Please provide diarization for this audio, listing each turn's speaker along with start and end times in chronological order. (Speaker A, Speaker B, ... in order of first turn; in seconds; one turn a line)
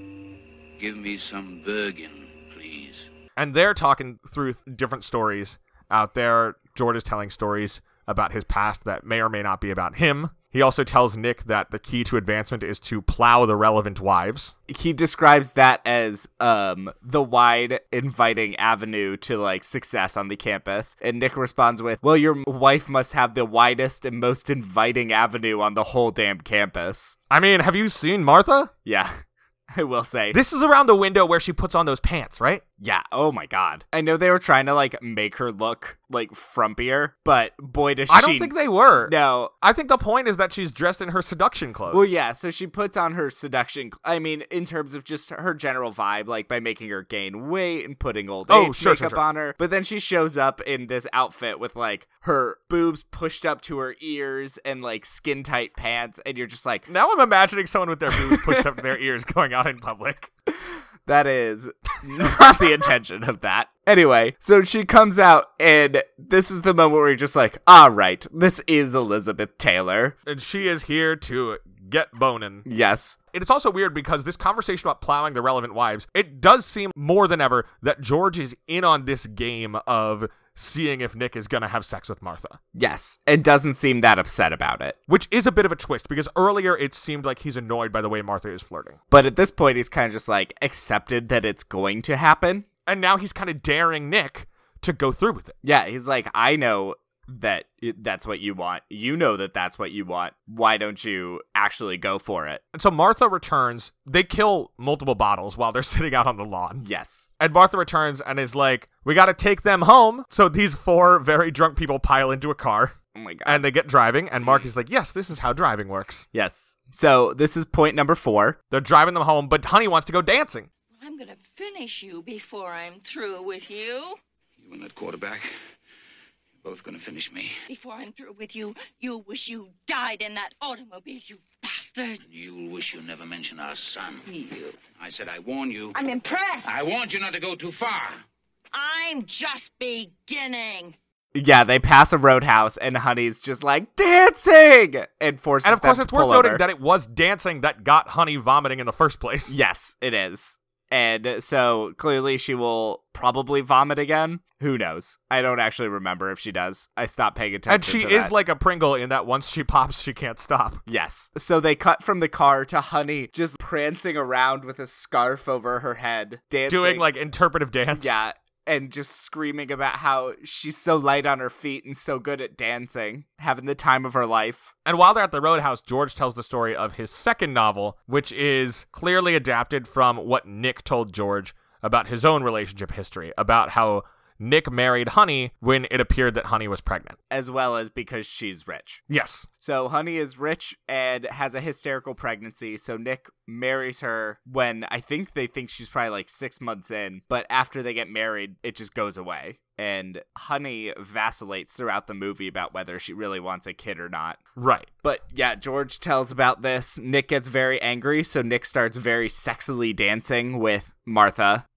Speaker A: 0.8-3.1
Speaker B: 3.4-14.5
Speaker C: 14.7-27.2
Speaker B: 27.3-28.7
Speaker C: 28.8-29.2
Speaker C: 29.7-30.4
Speaker B: 30.3-32.6
Speaker C: 32.8-39.5
Speaker B: 38.1-42.1
Speaker C: 41.9-56.9
Speaker B: 48.5-49.2
Speaker B: 56.9-60.3
Speaker C: 58.1-58.7
Speaker C: 60.7-70.2
Speaker B: 70.2-72.7
Speaker C: 72.6-73.2
Speaker B: 73.3-82.6
Speaker C: 82.7-85.0
Speaker B: 85.1-89.0
Speaker C: 89.1-92.7
Speaker B: 92.8-95.5
Speaker C: 95.6-102.6
Speaker B: 102.7-106.8
Speaker C: 106.8-107.3
Speaker B: 107.4-116.2
Speaker C: 113.1-113.7
Speaker C: 114.4-114.7
Speaker C: 116.3-118.6
Speaker B: 118.7-120.7
Speaker D: 121.0-124.2
Speaker A: 124.6-125.5
Speaker A: 126.6-127.5
Speaker D: 127.7-132.2
Speaker A: 132.2-134.3
Speaker D: 134.3-134.8
Speaker A: 134.9-136.0
Speaker D: 135.9-136.7
Speaker A: 136.6-138.2
Speaker D: 138.7-140.9
Speaker C: 141.3-146.6
Speaker B: 145.6-149.6
Speaker C: 149.5-158.3
Speaker B: 157.7-160.8
Speaker C: 160.9-167.1
Speaker B: 166.7-168.2
Speaker C: 167.9-174.7
Speaker B: 174.8-187.2
Speaker C: 187.3-189.0
Speaker B: 189.1-189.5
Speaker C: 189.6-204.4
Speaker B: 204.6-204.9
Speaker C: 205.0-211.6